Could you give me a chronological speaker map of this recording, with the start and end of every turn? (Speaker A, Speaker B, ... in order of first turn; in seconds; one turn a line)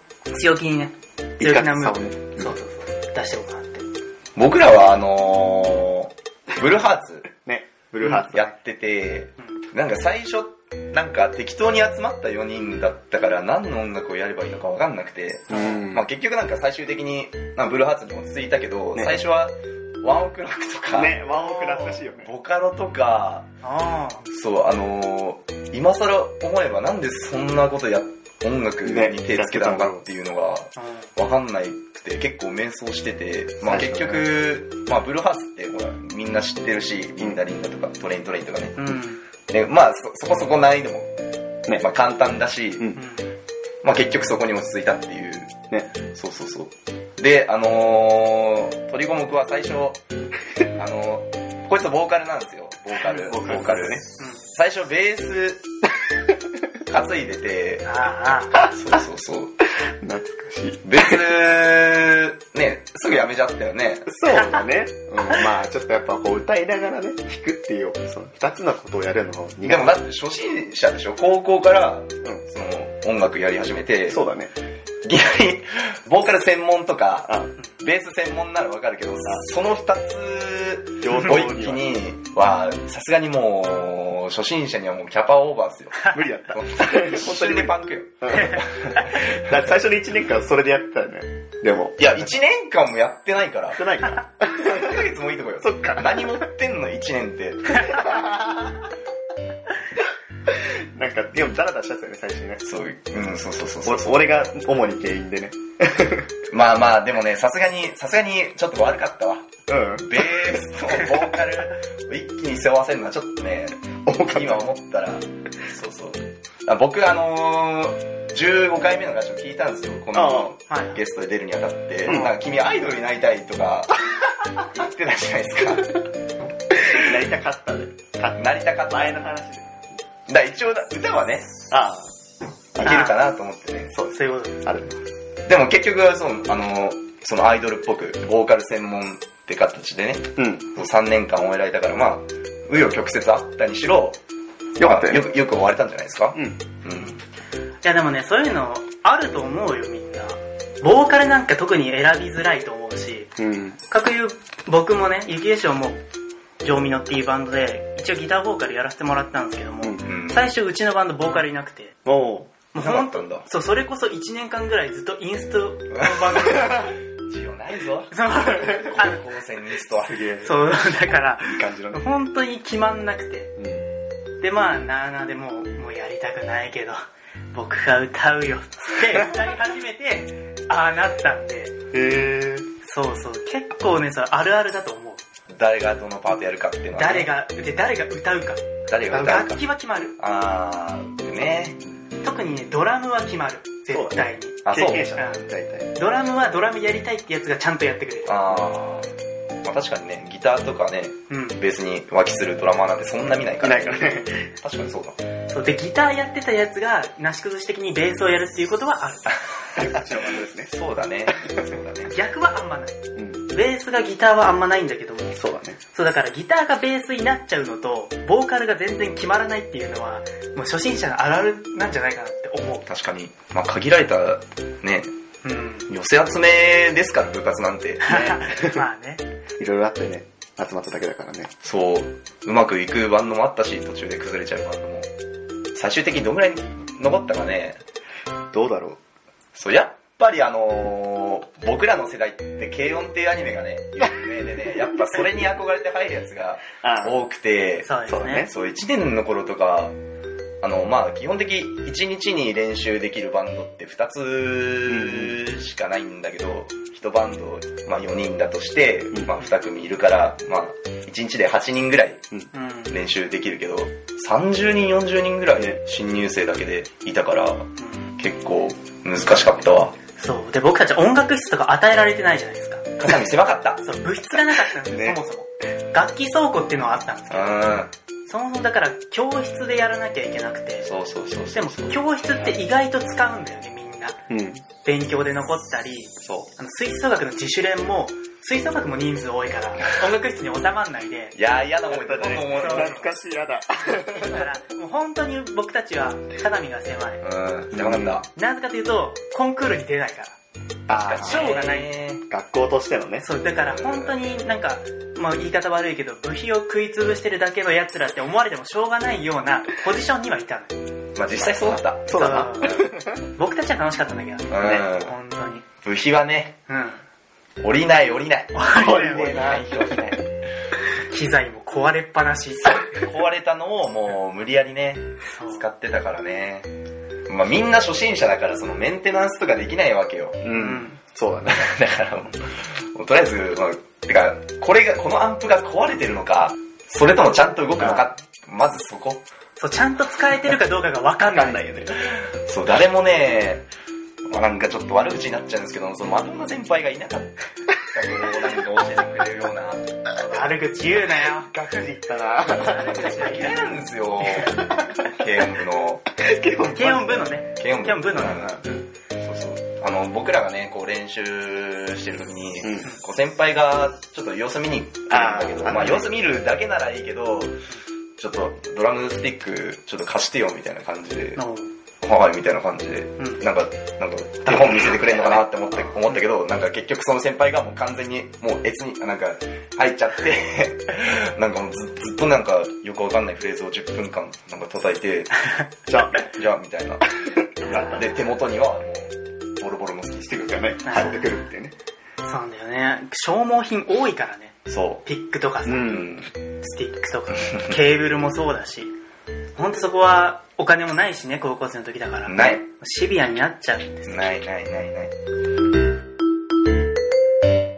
Speaker A: 0.3-3.8
Speaker B: 1.4-2.5
Speaker C: 4.3-7.3
Speaker B: 7.3-8.5
Speaker C: 8.1-21.2
Speaker B: 15.5-16.1
Speaker B: 18.9-19.2
Speaker B: 20.9-22.3
Speaker A: 21.4-22.0
Speaker C: 22.2-23.5
Speaker A: 23.6-24.2
Speaker C: 24.3-38.9
Speaker B: 28.8-30.0
Speaker A: 30.8-31.1
Speaker B: 33.6-34.3
Speaker A: 38.8-39.2
Speaker C: 39.5-41.1
Speaker C: 41.7-43.0
Speaker A: 43.0-43.2
Speaker C: 43.8-50.0
Speaker C: 50.7-55.6
Speaker B: 53.0-54.0
Speaker C: 56.9-57.9
Speaker A: 57.8-58.6
Speaker C: 58.5-59.5
Speaker B: 58.5-59.0
Speaker B: 59.7-61.2
Speaker C: 60.8-64.1
Speaker B: 64.0-70.0
Speaker A: 64.3-64.6
Speaker C: 69.7-74.2
Speaker B: 74.1-74.5
Speaker C: 75.0-89.5
Speaker B: 81.0-81.8
Speaker B: 86.1-92.2
Speaker A: 88.3-88.6
Speaker C: 92.0-93.9
Speaker B: 93.7-95.0
Speaker C: 94.5-98.1
Speaker B: 95.6-96.4
Speaker B: 97.8-98.9
Speaker B: 100.5-102.6
Speaker C: 102.6-104.2
Speaker B: 103.8-106.3
Speaker C: 106.5-126.1
Speaker B: 109.7-110.2
Speaker B: 114.0-114.7
Speaker B: 120.1-120.5
Speaker A: 120.7-121.0
Speaker B: 122.0-122.3
Speaker B: 126.8-129.8
Speaker C: 128.4-129.2
Speaker C: 130.3-131.6
Speaker B: 131.7-132.1
Speaker B: 132.7-133.1
Speaker C: 132.8-134.0
Speaker A: 132.8-133.2
Speaker B: 133.9-135.0
Speaker A: 134.1-134.6
Speaker C: 135.4-144.2
Speaker B: 140.3-140.8
Speaker B: 144.8-145.2
Speaker C: 144.8-147.1
Speaker B: 146.3-146.6
Speaker A: 146.9-147.2
Speaker A: 147.8-153.3
Speaker B: 153.4-153.8
Speaker A: 153.9-156.0
Speaker A: 156.6-162.0
Speaker C: 160.0-160.5
Speaker B: 162.0-162.5
Speaker A: 162.7-166.9
Speaker C: 162.8-163.4
Speaker C: 165.9-170.3
Speaker A: 168.1-169.2
Speaker B: 170.1-170.6
Speaker A: 170.4-173.5
Speaker B: 171.4-172.0
Speaker B: 173.6-173.8
Speaker A: 174.4-177.0
Speaker A: 177.5-181.7
Speaker B: 181.9-182.7
Speaker A: 182.8-185.2
Speaker C: 185.5-187.3
Speaker A: 186.9-190.2
Speaker C: 188.9-189.6
Speaker B: 189.1-189.4
Speaker C: 190.2-191.8
Speaker A: 192.2-194.6
Speaker B: 193.9-195.9
Speaker C: 194.6-195.1
Speaker A: 195.1-198.4
Speaker C: 198.3-199.1
Speaker C: 199.6-205.2
Speaker A: 201.3-201.6
Speaker B: 203.6-204.5
Speaker A: 205.5-209.4
Speaker B: 209.7-210.7
Speaker C: 209.8-210.0
Speaker C: 210.7-212.1
Speaker B: 211.3-211.7
Speaker A: 212.1-215.4
Speaker B: 213.2-213.4
Speaker B: 215.3-215.8
Speaker A: 215.9-222.9
Speaker C: 222.9-225.1
Speaker A: 225.4-225.9
Speaker C: 225.9-228.3
Speaker A: 228.0-229.2
Speaker B: 229.6-231.5
Speaker C: 231.6-235.1
Speaker C: 235.7-237.8
Speaker B: 238.5-239.0
Speaker C: 239.5-249.9
Speaker B: 246.8-247.2
Speaker A: 247.8-248.5
Speaker B: 248.1-248.5
Speaker C: 250.6-262.2
Speaker B: 254.9-255.3
Speaker A: 262.5-262.9
Speaker C: 262.9-269.9
Speaker A: 270.2-272.9
Speaker C: 273.0-273.8
Speaker A: 273.8-277.7
Speaker B: 274.8-275.2
Speaker C: 277.3-277.9
Speaker A: 278.3-280.9
Speaker C: 280.8-282.0
Speaker A: 281.5-284.2
Speaker B: 284.3-284.6
Speaker A: 284.8-291.4
Speaker C: 286.2-286.5
Speaker C: 291.3-293.0
Speaker B: 291.9-294.5
Speaker A: 292.5-293.1
Speaker A: 294.2-297.2
Speaker C: 297.2-298.3
Speaker B: 297.7-298.2
Speaker A: 298.3-300.4
Speaker B: 300.9-301.5
Speaker C: 300.9-302.2
Speaker A: 301.2-301.9
Speaker B: 302.3-303.3
Speaker A: 303.2-310.7
Speaker C: 303.6-304.2
Speaker C: 311.1-312.8
Speaker B: 311.6-313.3
Speaker A: 312.1-312.8
Speaker A: 313.4-315.6
Speaker C: 314.5-315.1
Speaker C: 315.8-316.6
Speaker A: 316.7-317.0
Speaker C: 317.6-320.2
Speaker A: 318.5-319.6
Speaker B: 318.8-319.7
Speaker A: 321.0-323.0
Speaker C: 322.9-326.7
Speaker A: 325.3-325.6
Speaker C: 327.3-330.5
Speaker B: 330.4-331.7
Speaker A: 330.5-331.0
Speaker C: 331.5-339.2
Speaker B: 337.8-338.1
Speaker A: 339.6-341.6
Speaker B: 341.3-342.0
Speaker C: 342.0-343.6
Speaker C: 344.3-349.8
Speaker A: 350.2-351.6
Speaker B: 351.5-353.3
Speaker A: 352.5-353.7
Speaker C: 352.9-356.1
Speaker B: 354.3-355.1
Speaker B: 356.1-357.3
Speaker A: 356.7-358.6
Speaker C: 357.6-358.6
Speaker B: 358.4-358.8
Speaker C: 359.2-367.6
Speaker B: 365.1-366.1
Speaker C: 368.2-371.4
Speaker A: 371.4-371.7
Speaker C: 372.0-385.5
Speaker B: 374.5-375.9
Speaker B: 385.9-386.3
Speaker C: 386.1-387.1
Speaker B: 387.2-388.1
Speaker C: 387.7-390.6
Speaker B: 390.3-391.7
Speaker A: 390.8-391.2
Speaker A: 392.2-396.0
Speaker C: 394.7-395.0
Speaker B: 395.6-396.2
Speaker C: 395.8-396.3
Speaker A: 396.6-398.9
Speaker C: 397.5-397.7
Speaker A: 399.6-404.3
Speaker C: 402.3-402.6
Speaker C: 404.1-405.1